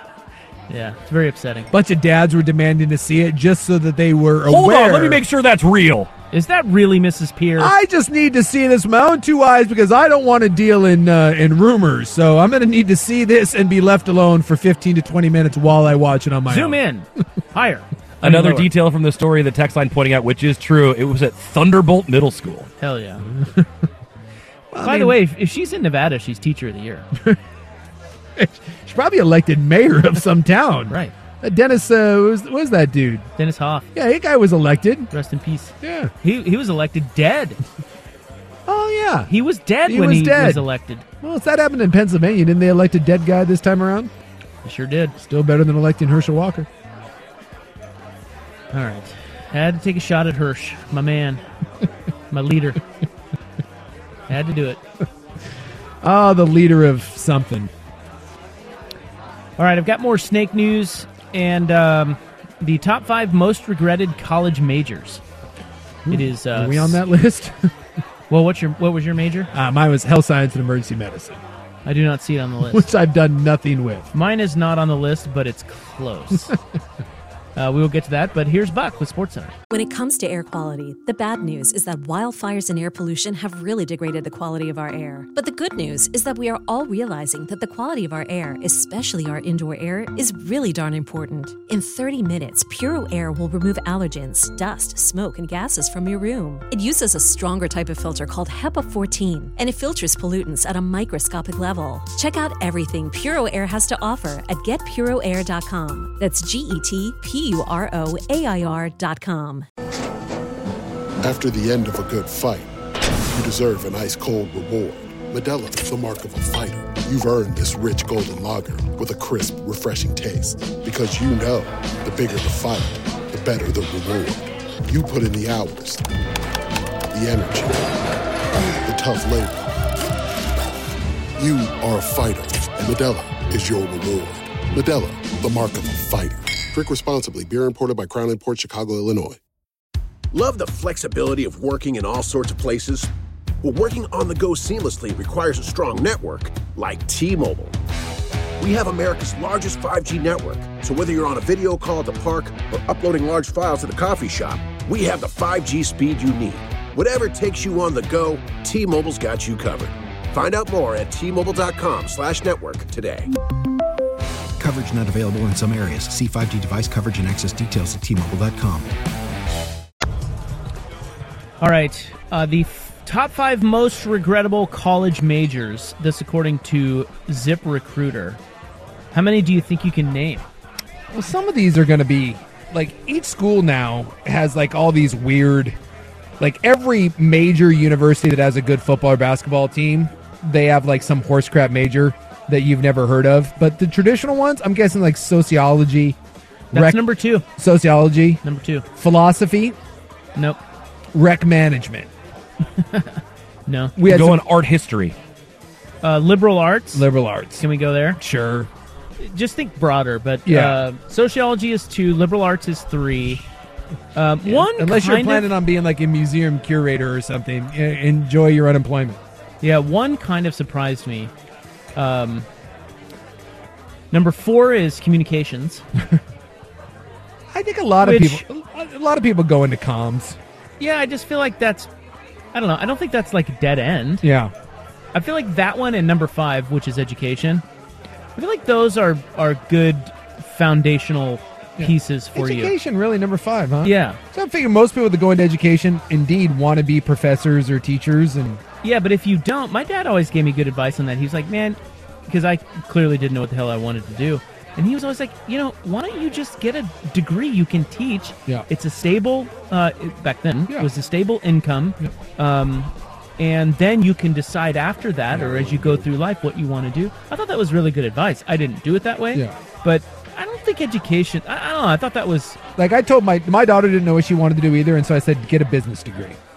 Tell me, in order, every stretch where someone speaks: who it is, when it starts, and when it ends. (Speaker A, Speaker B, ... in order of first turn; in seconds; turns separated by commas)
Speaker A: 0.7-1.7, Speaker B: 1.7-5.2, Speaker C: 4.5-6.1, Speaker A: 6.3-7.7, Speaker B: 7.6-16.8, Speaker A: 16.5-18.7, Speaker C: 18.2-22.7, Speaker A: 22.8-23.2, Speaker B: 23.4-23.7, Speaker B: 24.7-25.2, Speaker A: 24.8-27.1, Speaker B: 28.4-33.3, Speaker A: 33.4-33.9, Speaker B: 33.9-35.1, Speaker A: 35.1-37.6, Speaker B: 35.8-36.1, Speaker B: 38.6-39.3, Speaker A: 39.3-41.0, Speaker B: 39.8-40.7, Speaker B: 41.2-44.1, Speaker A: 44.6-45.1, Speaker B: 45.2-46.7, Speaker A: 48.7-51.4, Speaker A: 52.3-52.8, Speaker A: 54.3-54.8, Speaker B: 56.0-57.7, Speaker A: 59.6-65.2, Speaker B: 66.0-67.7, Speaker A: 66.1-67.0, Speaker A: 68.3-69.5, Speaker B: 69.5-71.4, Speaker A: 71.8-72.9, Speaker B: 72.7-74.1, Speaker A: 74.1-76.5, Speaker A: 77.5-79.5, Speaker D: 79.7-109.7, Speaker E: 111.2-112.7, Speaker E: 113.3-126.1, Speaker E: 127.1-127.9, Speaker E: 128.8-129.7, Speaker E: 131.4-139.4, Speaker F: 140.3-142.9, Speaker F: 143.6-147.7, Speaker F: 148.6-163.2, Speaker G: 164.6-168.9, Speaker A: 171.6-178.4, Speaker A: 179.1-180.5, Speaker B: 181.1-185.8, Speaker B: 186.4-196.2, Speaker B: 196.7-198.4, Speaker A: 196.7-197.4, Speaker A: 198.4-198.8, Speaker B: 198.9-199.8, Speaker B: 201.1-202.1, Speaker A: 202.9-204.0, Speaker B: 204.0-204.4, Speaker C: 204.0-205.2, Speaker A: 206.0-207.1, Speaker B: 206.9-207.7, Speaker A: 207.6-208.2, Speaker B: 208.2-208.7, Speaker A: 209.2-213.4, Speaker B: 210.4-210.8, Speaker A: 214.1-215.5, Speaker B: 214.4-219.2, Speaker A: 219.6-221.3, Speaker A: 221.9-222.5, Speaker A: 224.1-225.8, Speaker B: 227.5-230.4, Speaker A: 228.0-228.4, Speaker A: 230.8-231.9, Speaker A: 232.5-234.2, Speaker B: 234.2-234.5, Speaker A: 235.1-237.6, Speaker A: 238.3-242.7, Speaker B: 241.8-248.6, Speaker A: 243.8-244.2, Speaker A: 248.8-272.6, Speaker B: 265.3-266.1, Speaker B: 272.8-276.4